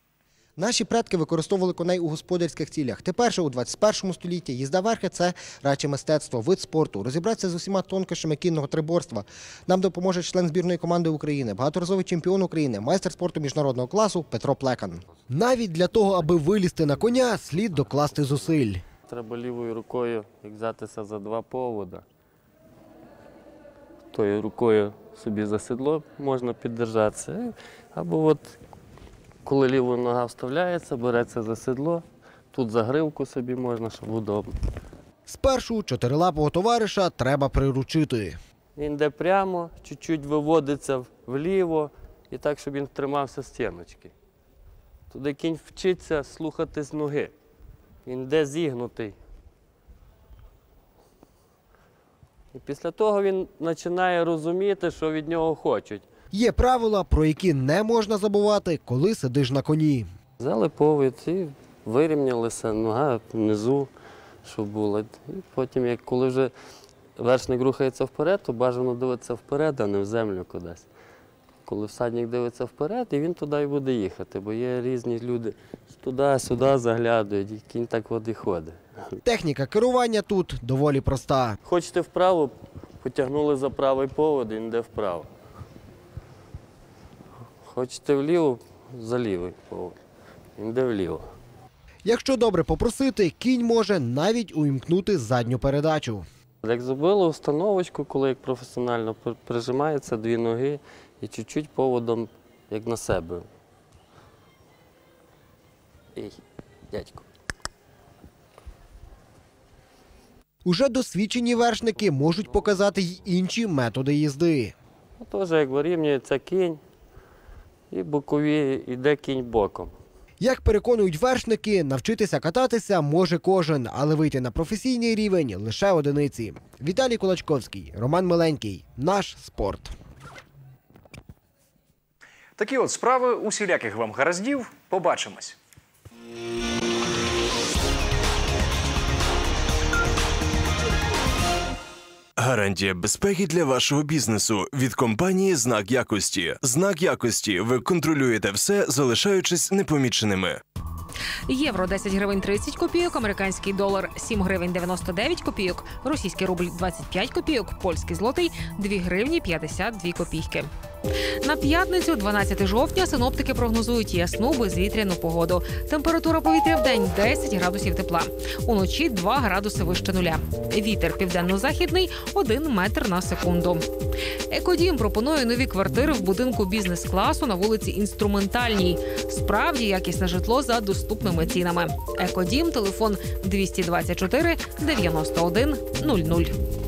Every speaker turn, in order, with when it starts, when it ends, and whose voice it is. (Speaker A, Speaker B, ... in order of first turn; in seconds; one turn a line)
Speaker A: 0.6-18.8
Speaker B: 19.1-22.0
Speaker B: 24.1-28.6
Speaker B: 29.4-34.5
Speaker A: 35.3-38.4
Speaker B: 38.8-44.1
Speaker B: 45.1-47.3
Speaker B: 48.1-49.2
Speaker B: 52.5-56.0
Speaker A: 56.3-60.1
Speaker B: 60.4-63.9
Speaker B: 64.4-66.5
Speaker B: 67.2-70.9
Speaker B: 71.7-78.8
Speaker A: 79.2-81.6
Speaker B: 81.6-85.3
Speaker B: 87.6-90.0
Speaker B: 90.6-91.2
Speaker A: 92.0-96.2
Speaker B: 96.6-103.5
Speaker B: 106.9-107.2
Speaker A: 110.6-114.7
Speaker B: 115.2-116.8
Speaker B: 117.9-119.9
Speaker A: 120.4-129.9
Speaker C: 132.6-135.6
Speaker D: 142.4-150.6
Speaker E: 151.5-160.7
Speaker E: 161.4-173.8
Speaker E: 174.5-186.5